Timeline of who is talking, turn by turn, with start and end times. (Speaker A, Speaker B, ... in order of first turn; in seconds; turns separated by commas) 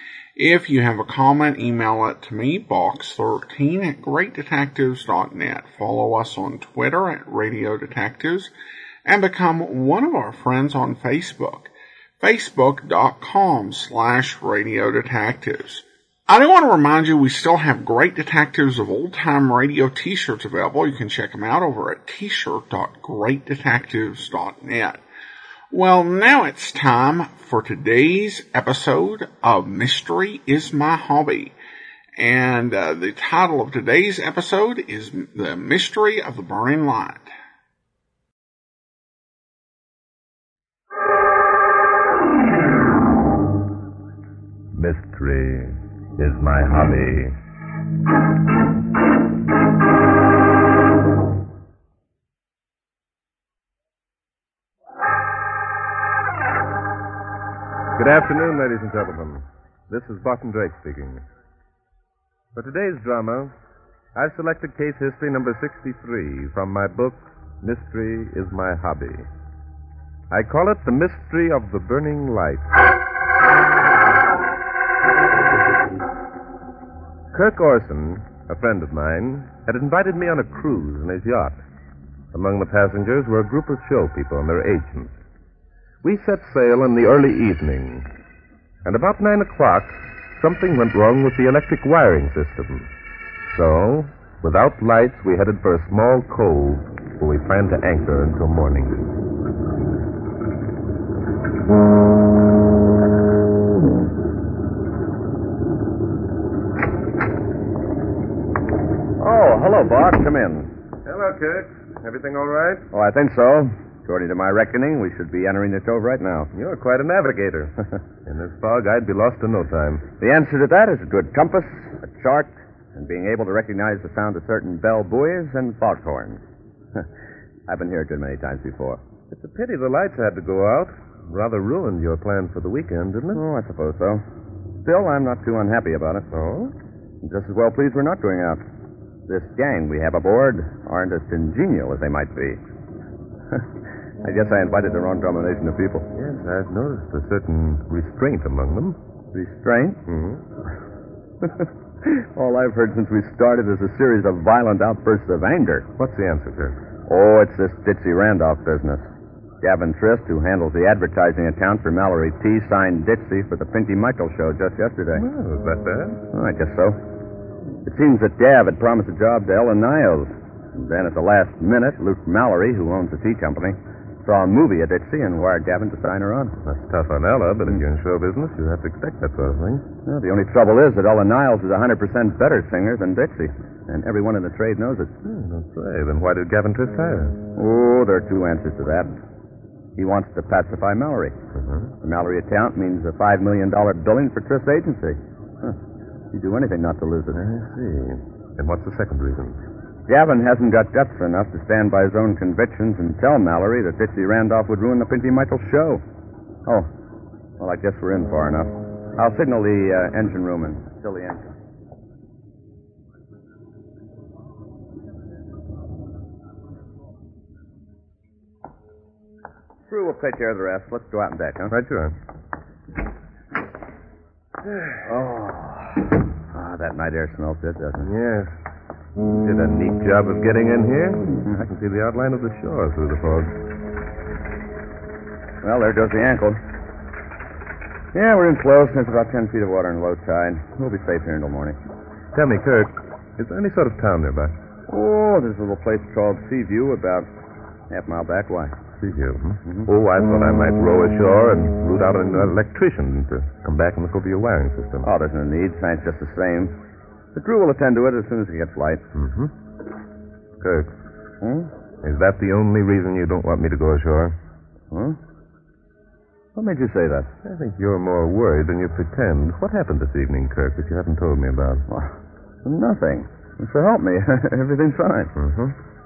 Speaker A: 0.3-8.5, Speaker A: 9.1-25.0, Speaker A: 25.7-31.5, Speaker A: 32.2-37.3, Speaker B: 44.7-47.4, Speaker B: 57.9-61.2, Speaker B: 62.5-63.5, Speaker B: 64.1-69.3, Speaker B: 70.3-72.7, Speaker B: 77.3-81.6, Speaker B: 82.3-85.1, Speaker B: 86.0-88.1, Speaker B: 88.8-92.9, Speaker B: 93.5-99.0, Speaker C: 109.2-110.7, Speaker B: 111.0-112.9, Speaker C: 112.9-116.5, Speaker B: 116.5-120.0, Speaker C: 120.2-126.4, Speaker C: 127.7-129.0, Speaker B: 129.3-133.4, Speaker C: 133.3-134.2, Speaker C: 134.8-136.3, Speaker B: 136.3-136.7, Speaker C: 137.2-138.6, Speaker C: 139.3-142.6, Speaker C: 144.2-146.1, Speaker B: 146.1-149.0, Speaker C: 149.3-150.0, Speaker B: 150.1-150.4, Speaker C: 151.4-155.9, Speaker B: 156.0-156.8, Speaker C: 157.1-159.0, Speaker C: 159.6-165.2, Speaker B: 165.1-166.2, Speaker C: 166.3-167.0, Speaker C: 167.8-176.6, Speaker B: 176.6-179.8, Speaker C: 180.0-185.1, Speaker B: 185.2-187.4, Speaker C: 187.5-189.1, Speaker C: 190.0-191.3, Speaker B: 191.5-191.9, Speaker C: 192.0-195.8, Speaker C: 196.3-197.4, Speaker B: 197.3-199.6, Speaker C: 200.1-206.0, Speaker C: 207.6-211.5, Speaker C: 219.9-221.7, Speaker B: 221.7-222.2, Speaker C: 225.1-225.9, Speaker C: 226.5-228.1, Speaker B: 228.0-228.6, Speaker B: 229.2-233.6, Speaker C: 235.6-236.6, Speaker C: 238.1-241.8, Speaker B: 242.3-244.5, Speaker C: 244.9-247.3, Speaker C: 247.9-248.8, Speaker B: 249.0-255.1, Speaker C: 255.0-256.7, Speaker C: 257.3-259.0, Speaker B: 259.1-259.5, Speaker B: 260.6-260.9, Speaker C: 261.4-261.7, Speaker B: 262.0-264.4, Speaker C: 264.9-265.2, Speaker C: 266.6-267.3, Speaker B: 267.4-271.8, Speaker C: 272.6-275.3, Speaker B: 275.4-275.7